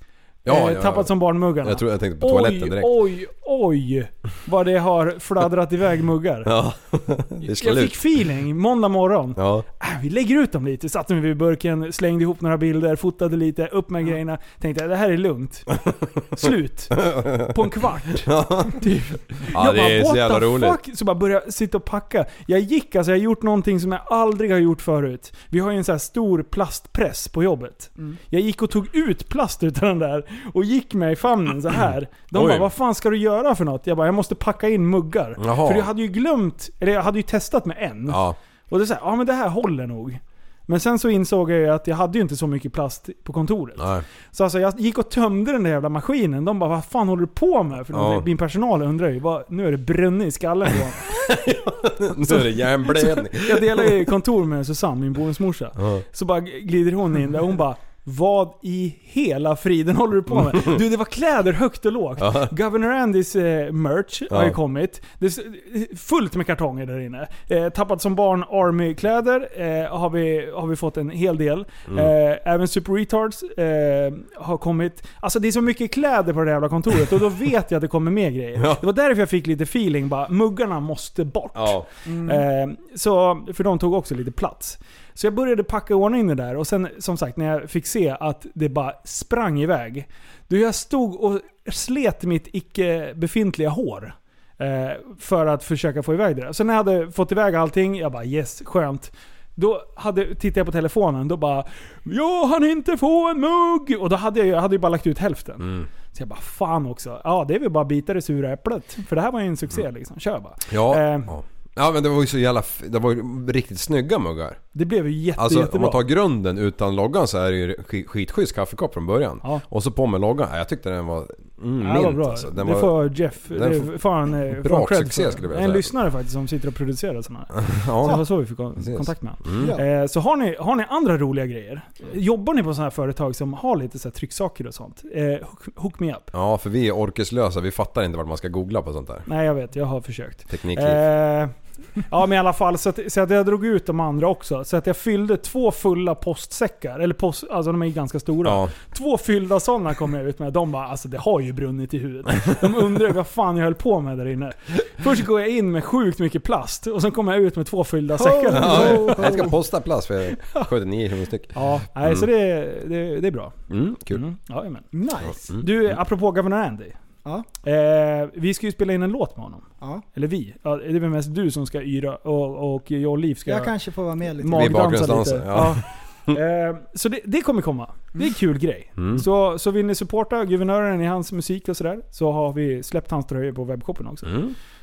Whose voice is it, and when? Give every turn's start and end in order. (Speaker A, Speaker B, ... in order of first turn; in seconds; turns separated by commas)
Speaker A: 0.4-3.0, Speaker B: 0.5-6.5, Speaker A: 6.4-8.2, Speaker B: 7.4-15.7, Speaker A: 9.3-9.7, Speaker B: 16.3-51.1, Speaker A: 17.0-18.9, Speaker A: 19.5-20.8, Speaker A: 32.3-32.7, Speaker A: 35.4-35.9, Speaker A: 38.1-38.4, Speaker A: 43.8-44.0, Speaker A: 47.9-48.3, Speaker A: 51.0-54.1, Speaker B: 52.1-111.3, Speaker A: 55.8-56.0, Speaker A: 60.3-60.8, Speaker A: 62.2-62.5, Speaker A: 64.3-64.6, Speaker A: 78.6-78.8, Speaker A: 81.5-81.9, Speaker C: 82.0-82.4, Speaker A: 105.6-105.9, Speaker A: 110.7-114.6, Speaker B: 114.7-116.0, Speaker A: 115.3-125.9, Speaker B: 121.8-136.3, Speaker A: 127.5-129.8, Speaker C: 129.5-129.8, Speaker A: 136.3-139.3, Speaker B: 139.3-159.5, Speaker A: 140.5-141.0, Speaker A: 148.4-148.7, Speaker C: 158.1-159.5, Speaker A: 158.5-162.3, Speaker B: 160.4-160.7, Speaker B: 161.5-163.6, Speaker A: 163.7-164.2, Speaker B: 164.1-164.9, Speaker C: 164.9-165.5, Speaker A: 165.2-166.0, Speaker B: 165.6-166.9, Speaker B: 167.6-173.7, Speaker C: 173.4-174.8, Speaker B: 174.4-184.4, Speaker A: 174.5-176.4, Speaker A: 179.0-179.2, Speaker A: 184.2-184.6